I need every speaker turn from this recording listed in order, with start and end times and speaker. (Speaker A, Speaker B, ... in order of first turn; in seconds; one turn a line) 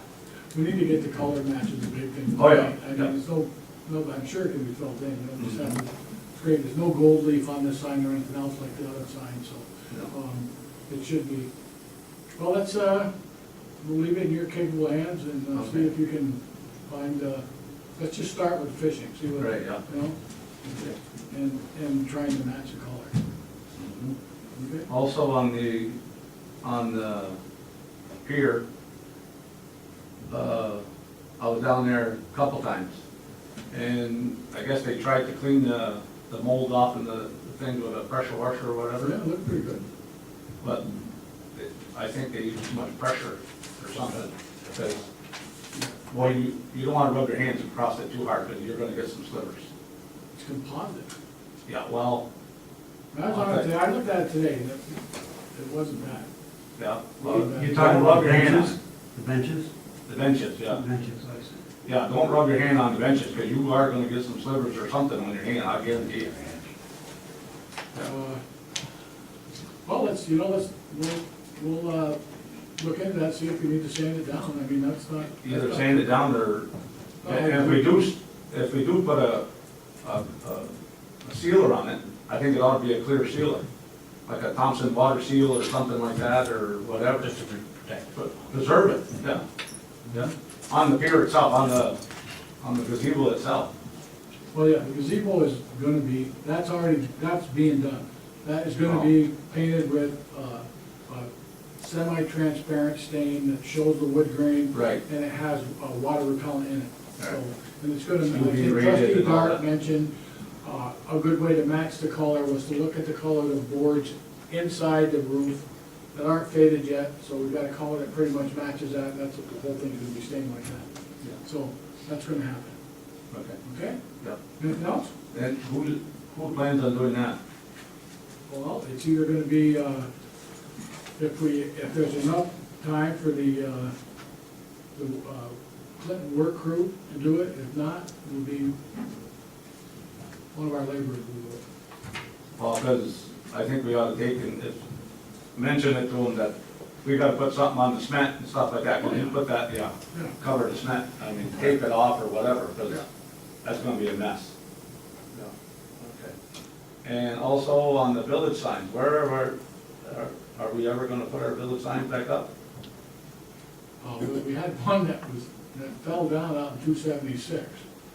Speaker A: 0.5-11.5
Speaker B: 2.4-3.1
Speaker B: 5.4-5.8
Speaker A: 12.4-13.1
Speaker A: 13.8-17.4
Speaker B: 15.6-15.9
Speaker A: 18.0-23.2
Speaker B: 19.4-19.8
Speaker B: 23.8-24.1
Speaker A: 24.6-24.9
Speaker B: 24.9-26.0
Speaker B: 26.6-27.4
Speaker B: 28.2-28.6
Speaker B: 30.3-30.8
Speaker B: 31.4-33.0
Speaker B: 33.7-39.2
Speaker A: 39.0-39.9
Speaker B: 41.5-45.0
Speaker B: 46.1-49.7
Speaker A: 50.4-51.1
Speaker B: 51.7-52.2
Speaker A: 53.1-56.3
Speaker B: 53.3-53.7
Speaker B: 56.8-58.8
Speaker A: 57.2-58.2
Speaker C: 57.6-59.7
Speaker B: 60.1-60.8
Speaker C: 60.7-61.6
Speaker B: 61.9-66.6
Speaker A: 68.0-68.4
Speaker A: 69.9-72.2
Speaker A: 72.8-76.1
Speaker B: 75.4-76.7
Speaker A: 77.2-77.9
Speaker B: 77.2-79.5
Speaker B: 80.0-80.7
Speaker B: 81.2-83.7
Speaker B: 84.3-87.4
Speaker B: 88.1-89.5
Speaker B: 90.1-92.0
Speaker B: 92.6-93.7
Speaker A: 94.5-110.1
Speaker B: 98.8-99.1
Speaker B: 104.7-105.0
Speaker B: 108.3-109.6
Speaker A: 110.6-120.9
Speaker A: 121.4-122.8
Speaker B: 123.3-123.6
Speaker A: 123.6-124.0
Speaker A: 124.6-125.1
Speaker B: 125.3-127.4
Speaker A: 128.5-130.1
Speaker A: 131.2-133.9
Speaker A: 134.9-138.8
Speaker A: 140.5-141.6
Speaker B: 142.6-144.8
Speaker B: 145.6-153.1
Speaker A: 149.0-149.3
Speaker B: 153.6-154.5
Speaker B: 155.3-156.3
Speaker B: 157.0-162.5
Speaker A: 164.0-167.8